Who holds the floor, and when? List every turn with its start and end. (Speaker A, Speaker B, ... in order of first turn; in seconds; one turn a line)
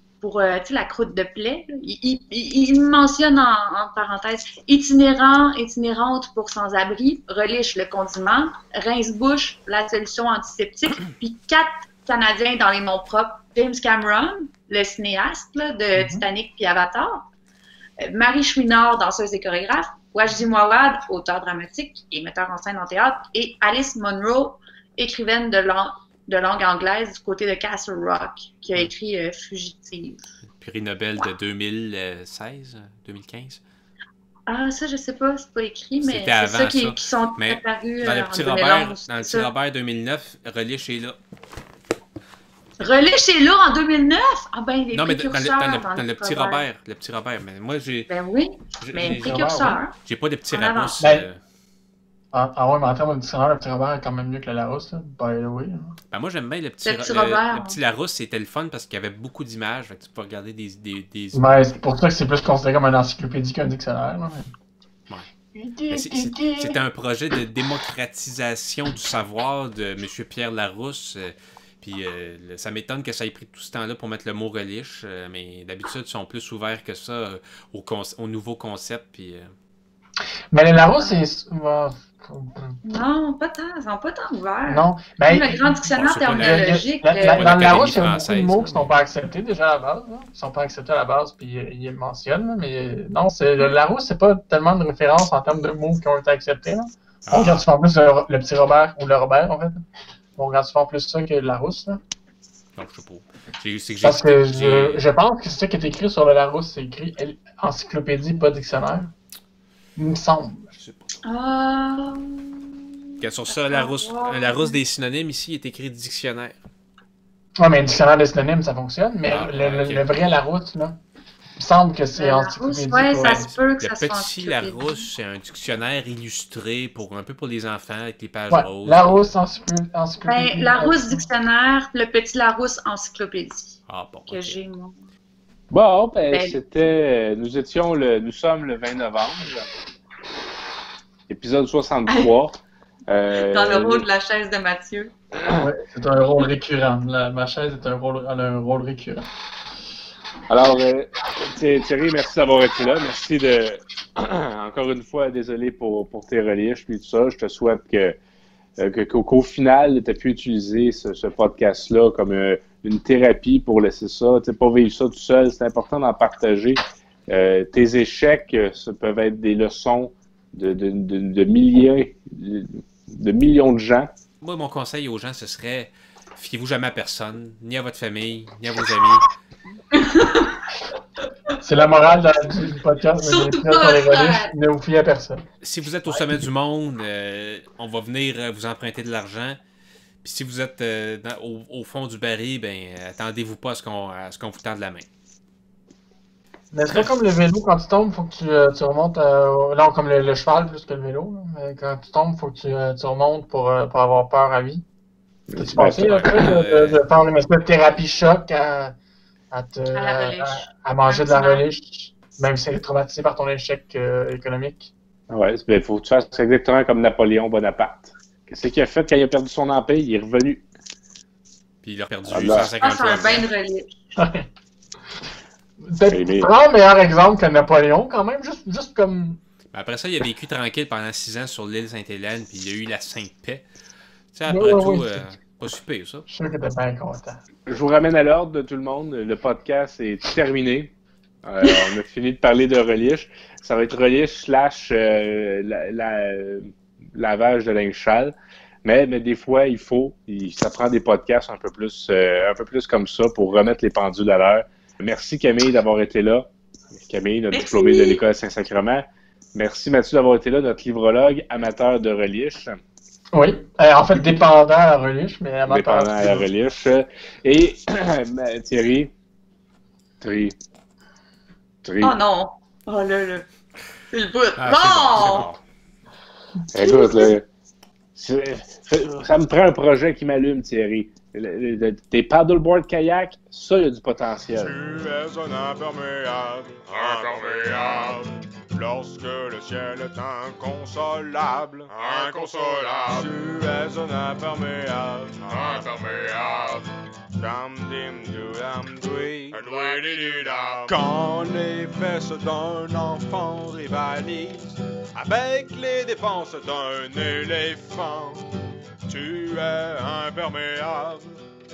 Speaker A: 0.2-17.2
Speaker B: 15.9-16.2
Speaker A: 18.0-30.2
Speaker C: 30.6-33.6
Speaker A: 34.5-39.5
Speaker C: 36.0-41.2
Speaker A: 42.8-46.6
Speaker C: 44.9-48.1
Speaker A: 48.1-49.9
Speaker C: 48.8-51.4
Speaker B: 49.0-49.8
Speaker A: 50.5-51.0
Speaker B: 51.0-51.3
Speaker B: 52.3-55.9
Speaker C: 56.1-61.5
Speaker A: 56.8-57.8
Speaker B: 61.3-64.5
Speaker B: 65.5-66.8
Speaker C: 65.9-79.5
Speaker B: 80.5-82.8
Speaker A: 82.8-87.5
Speaker B: 84.7-85.8
Speaker C: 85.9-86.8
Speaker B: 86.3-99.8
Speaker C: 87.3-88.9
Speaker C: 97.2-97.6
Speaker B: 100.3-102.0
Speaker C: 102.8-105.0
Speaker B: 104.0-109.1
Speaker B: 110.0-110.7
Speaker A: 111.2-114.7
Speaker C: 113.2-116.6
Speaker B: 117.6-121.0
Speaker C: 119.3-120.1
Speaker B: 121.6-123.5
Speaker A: 122.2-125.0
Speaker C: 123.2-129.3
Speaker B: 128.5-131.2
Speaker A: 130.3-133.8
Speaker C: 133.9-134.6
Speaker A: 134.3-134.9
Speaker D: 135.7-139.7
Speaker A: 136.3-136.6
Speaker D: 141.3-142.5
Speaker D: 143.1-144.1
Speaker A: 143.3-145.1
Speaker B: 145.6-149.3
Speaker D: 150.5-158.2
Speaker D: 158.8-174.1
Speaker C: 174.4-179.3
Speaker A: 179.9-180.6
Speaker B: 181.6-185.4
Speaker A: 183.2-184.5
Speaker C: 185.6-189.6
Speaker C: 190.2-195.1
Speaker B: 196.7-204.8
Speaker D: 205.5-206.2
Speaker B: 205.6-208.9
Speaker C: 206.1-207.0
Speaker B: 209.5-214.9
Speaker A: 209.9-211.6
Speaker D: 215.3-220.6
Speaker C: 221.8-223.5
Speaker D: 222.3-222.7
Speaker A: 222.8-223.9
Speaker B: 224.2-224.4
Speaker B: 225.8-229.4
Speaker D: 226.1-226.5
Speaker C: 229.7-233.7
Speaker C: 234.3-236.2
Speaker B: 234.5-235.3
Speaker B: 236.3-237.4
Speaker D: 237.7-240.9
Speaker D: 241.4-262.8
Speaker A: 257.5-258.2
Speaker B: 263.3-266.5
Speaker D: 265.7-269.1
Speaker D: 270.2-270.5
Speaker D: 271.8-272.2
Speaker A: 272.0-273.4
Speaker A: 274.1-275.5
Speaker C: 274.6-275.6
Speaker D: 276.7-277.4
Speaker A: 276.8-277.3
Speaker D: 278.1-284.8
Speaker E: 284.6-308.5
Speaker E: 309.1-311.4